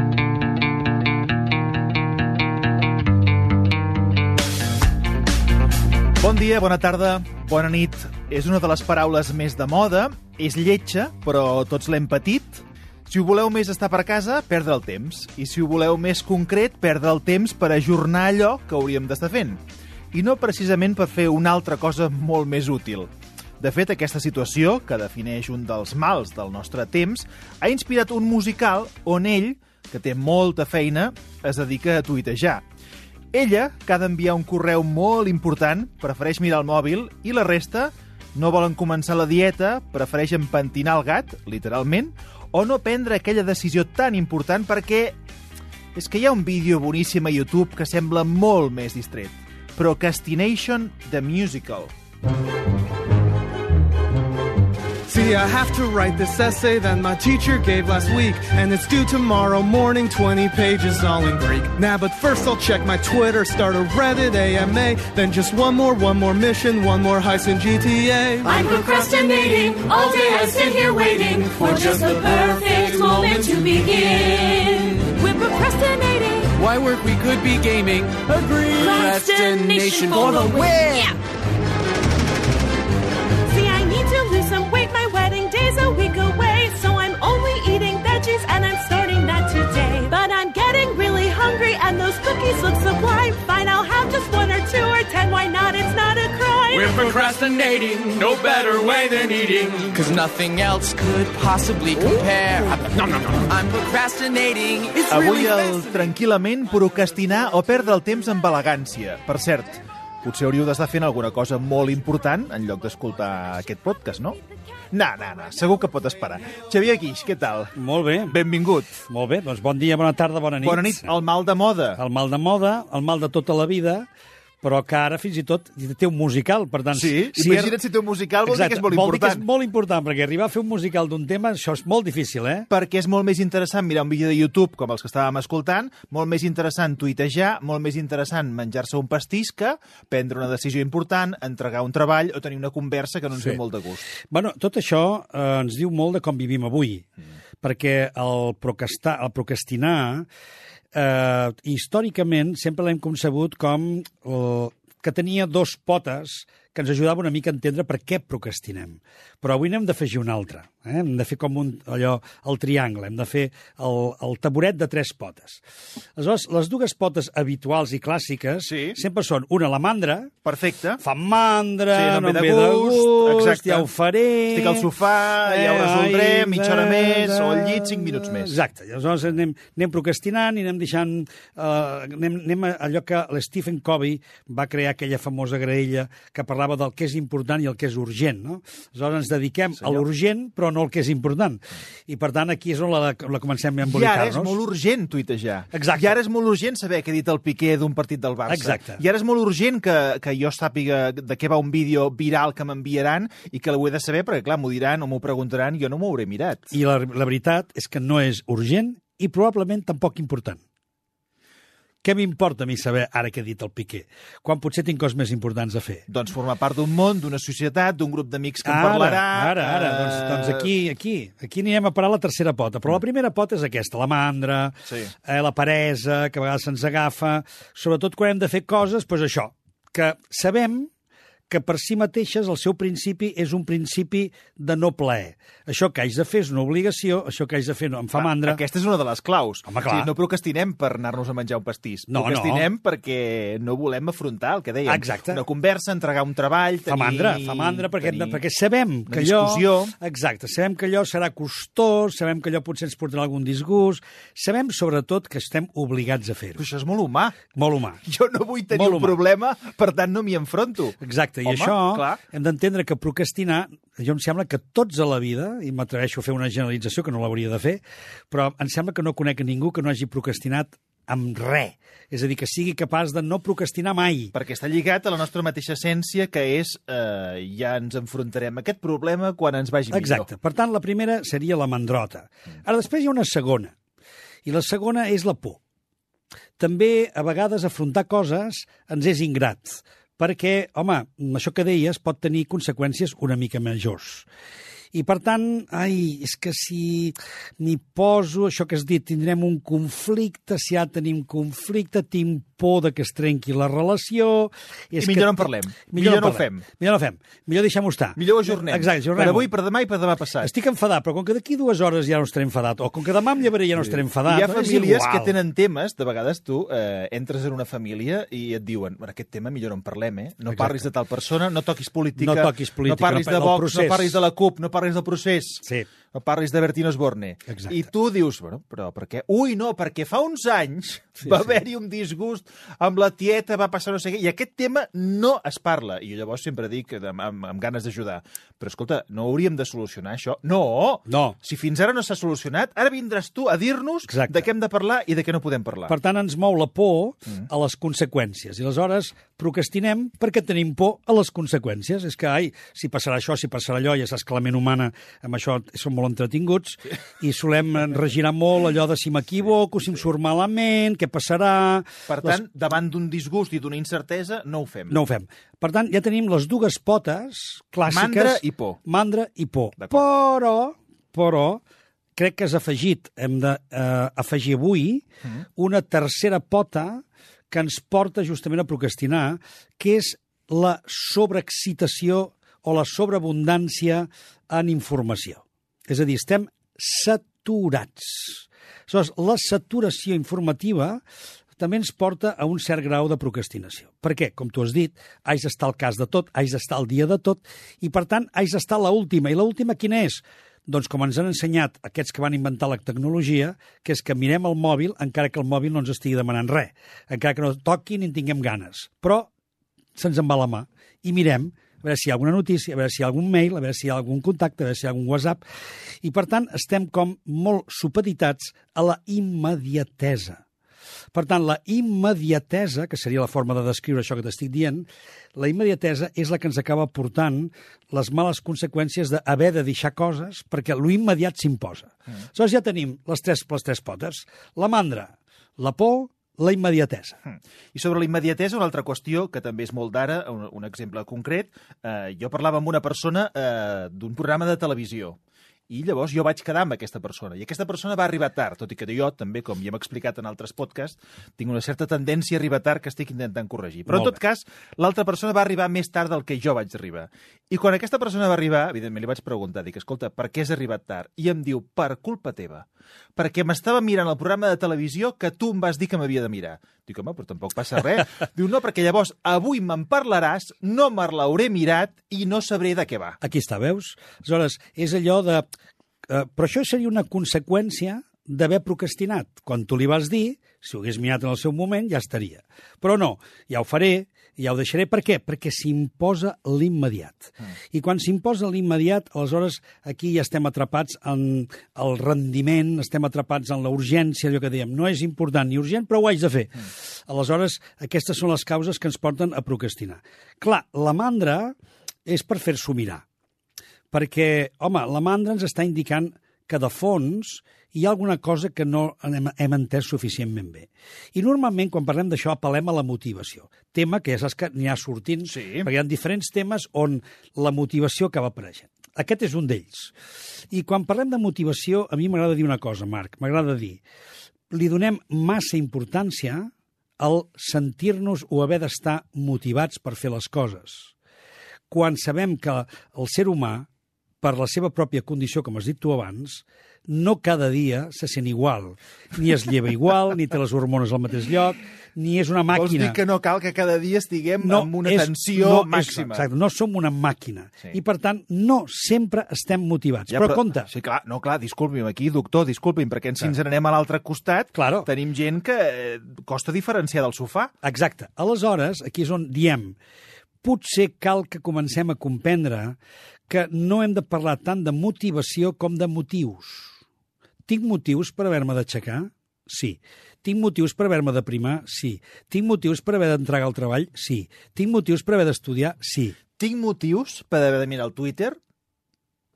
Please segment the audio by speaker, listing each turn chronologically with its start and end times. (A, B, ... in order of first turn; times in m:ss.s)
0:06.2-0:32.6 A
0:33.3-0:45.2 A
0:45.9-0:51.9 A
0:55.1-1:08.5 B
1:08.4-1:16.5 C
1:16.5-1:21.2 D
1:18.7-1:21.2 C
1:23.5-1:37.0 C
1:36.7-1:45.8 D
1:45.1-1:54.4 A
1:54.9-1:57.7 A
1:57.8-1:58.4 E
1:58.3-1:59.0 A
1:59.0-2:01.2 E
2:00.6-2:02.0 A
2:02.0-2:04.1 E
2:04.6-2:07.8 E
2:06.9-2:09.4 A
2:08.4-2:12.7 E
2:12.7-2:24.1 A
2:24.3-2:27.0 E
2:27.6-2:30.2 E
2:30.9-2:45.6 E
2:46.2-2:50.3 E
2:48.6-2:49.0 A
2:50.4-2:51.0 A
2:51.0-2:54.9 E
2:51.9-2:53.9 A
2:54.5-2:58.6 A
2:55.4-3:14.6 E
3:09.8-3:10.0 A
3:13.8-3:26.7 A
3:15.7-3:16.1 E
3:18.5-3:19.0 E
3:26.7-3:30.6 E
3:32.0-3:36.0 E
3:36.1-3:40.7 A
3:38.6-3:50.9 E
3:51.5-3:58.6 E
3:58.1-4:08.4 A
3:59.7-4:00.1 E
4:02.1-4:02.7 E
4:04.8-4:05.4 E
4:06.8-4:16.6 E
4:09.1-4:09.9 A
4:16.6-4:17.4 A
4:17.5-4:18.0 E
4:18.0-4:22.2 A
4:18.7-4:19.2 E
4:21.0-4:34.3 E
4:34.3-4:40.3 A
4:39.9-4:43.7 E
4:44.4-4:45.6 E
4:46.6-4:54.2 E
4:54.9-5:09.5 E
5:05.0-5:06.6 A
5:08.2-5:10.5 A
5:10.4-5:15.3 E
5:13.8-5:46.0 A
5:20.5-5:20.8 E
5:22.2-5:24.2 E
5:27.5-5:27.8 E
5:31.2-5:31.5 E
5:41.1-5:41.4 E
5:44.1-5:44.5 E
5:45.9-6:02.4 E
6:02.1-6:05.0 A
6:04.9-6:11.6 E
6:07.9-6:08.8 A
6:12.2-6:15.0 E
6:15.6-6:31.0 E
6:31.6-6:49.3 E
6:50.0-6:55.4 E
6:56.0-7:00.4 E
7:01.1-7:17.2 E
7:17.2-7:25.2 A
7:25.7-7:53.2 A
7:33.9-7:34.2 E
7:53.2-7:55.4 E
7:56.1-8:21.5 E
8:22.0-8:23.0 E
8:23.9-8:39.9 E
8:35.2-8:35.7 A
8:40.5-8:43.8 E
8:44.5-8:50.9 E
8:51.7-8:53.7 E
8:54.2-9:03.0 E
9:02.5-9:06.2 A
9:04.4-9:10.7 E
9:10.1-9:17.5 A
9:14.5-9:14.9 E
9:17.6-9:19.8 E
9:20.4-9:22.8 E
9:23.3-9:26.8 E
9:27.5-9:36.2 E
9:36.4-9:38.4 A